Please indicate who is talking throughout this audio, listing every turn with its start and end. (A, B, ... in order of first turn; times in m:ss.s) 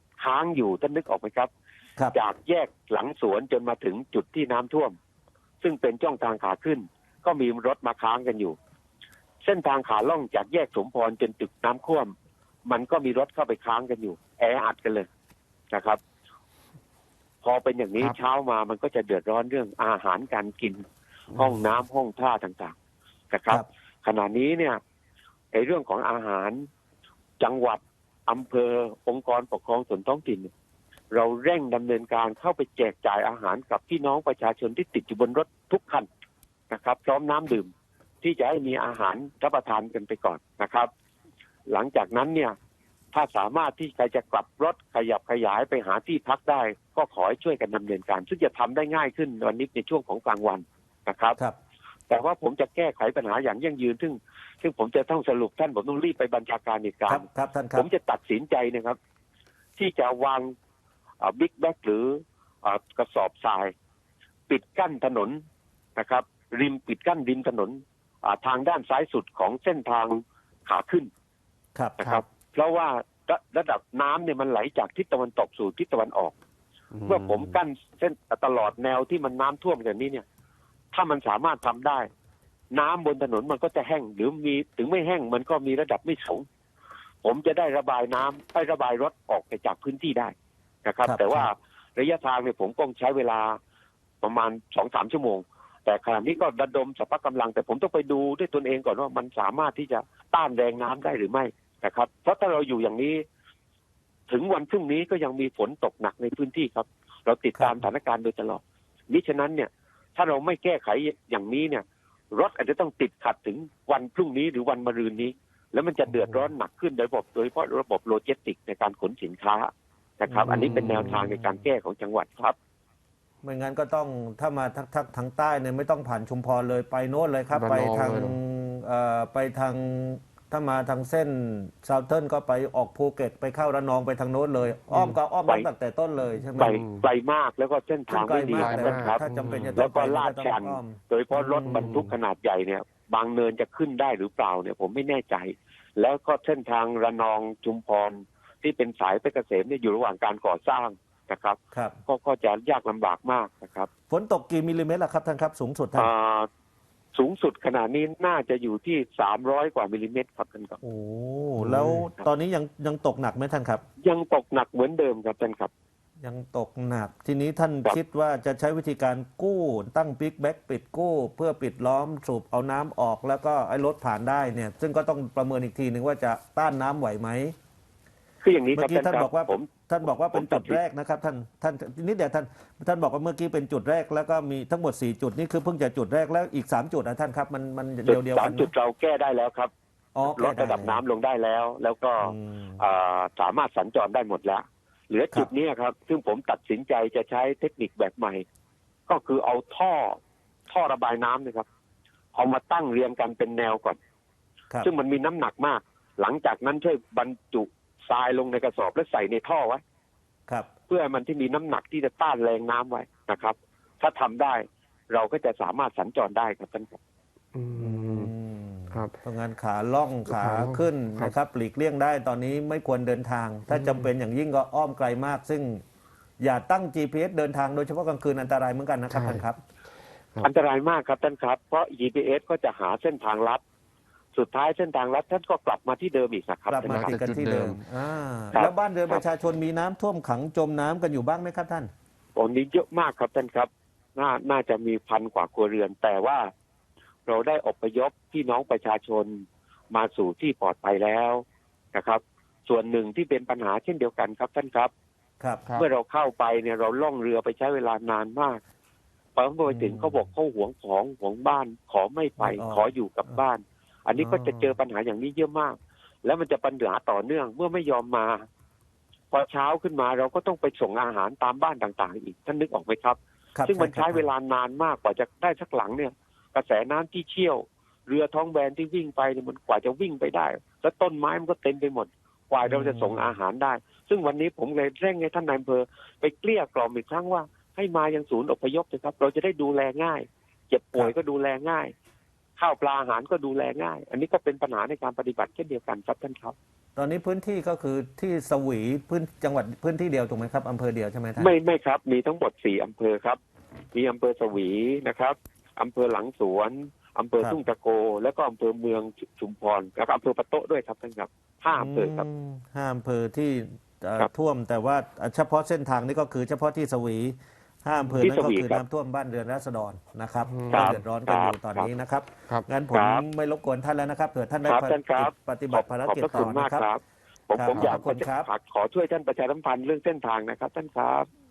0:00.2-0:01.5 A
0:02.1-0:04.9 A
0:05.6-0:08.6 A
0:09.4-0:12.1 A
0:12.6-0:15.1 A
0:15.7-0:16.0 A
0:17.4-0:20.8 A
0:21.3-0:21.6 B
0:21.3-0:22.7 A
0:23.3-0:24.8 A
0:25.5-0:26.6 A
0:27.4-0:30.5 A
0:31.1-0:36.1 A
0:36.7-0:37.7 A
0:38.2-0:40.9 A
0:41.7-0:42.5 A
0:43.1-0:51.4 A
0:52.1-0:59.0 A
0:57.1-0:57.9 C
0:59.8-1:00.5 A
1:01.2-1:03.7 A
1:04.5-1:05.4 A
1:06.0-1:11.1 A
1:11.7-1:12.0 C
1:12.0-1:16.3 A
1:16.9-1:17.6 B
1:17.0-1:20.2 A
1:20.9-1:22.1 A
1:22.7-1:26.4 A
1:27.2-1:30.3 A
1:30.8-1:33.6 A
1:31.0-1:31.5 C
1:34.2-1:43.2 A
1:44.3-2:02.6 A
1:47.6-1:47.8 C
1:56.1-1:56.4 C
2:00.3-2:01.6 C
2:00.5-2:01.2 B
2:03.4-2:16.8 C
2:07.5-2:08.4 B
2:14.9-2:15.2 B
2:16.6-2:17.1 B
2:16.6-2:19.2 A
2:18.1-2:21.9 C
2:18.5-2:19.8 B
2:19.8-2:33.9 A
2:21.6-2:22.1 B
2:34.1-2:36.1 C
2:35.9-2:36.5 A
2:37.1-2:40.8 A
2:40.8-2:43.8 C
2:41.6-2:42.3 A
2:44.0-2:45.7 A
2:46.2-2:57.5 C
2:58.4-3:00.8 A
2:58.7-3:08.7 C
3:08.0-3:09.7 A
3:10.1-3:11.0 C
3:10.2-3:18.4 A
3:12.2-3:12.8 C
3:19.1-3:21.6 A
3:22.3-3:24.0 A
3:24.8-3:29.8 A
3:30.9-3:37.0 A
3:37.5-3:38.3 B
3:37.8-3:45.8 C
3:40.2-3:41.3 B
3:43.7-3:44.1 B
3:46.4-3:49.6 C
3:49.1-3:49.4 B
3:50.4-3:53.6 A
3:54.3-3:57.2 A
3:56.7-4:01.9 C
3:56.8-3:57.8 B
3:58.5-3:59.2 A
4:02.4-4:06.5 A
4:07.2-4:11.4 A
4:11.9-4:14.9 A
4:15.8-4:18.6 A
4:19.4-4:28.4 A
4:19.7-4:20.3 C
4:22.4-4:23.4 C
4:24.2-4:24.7 C
4:29.3-4:51.9 A
4:33.6-4:34.3 C
4:42.6-4:43.3 C
4:52.6-4:56.5 A
4:57.0-5:01.5 C
5:01.4-5:03.4 A
5:03.9-5:12.2 A
5:11.8-5:26.8 C
5:18.1-5:18.8 A
5:20.4-5:21.0 B
5:20.7-5:21.9 A
5:22.9-5:23.2 A
5:24.7-5:31.2 A
5:27.6-5:28.5 C
5:27.7-5:28.0 B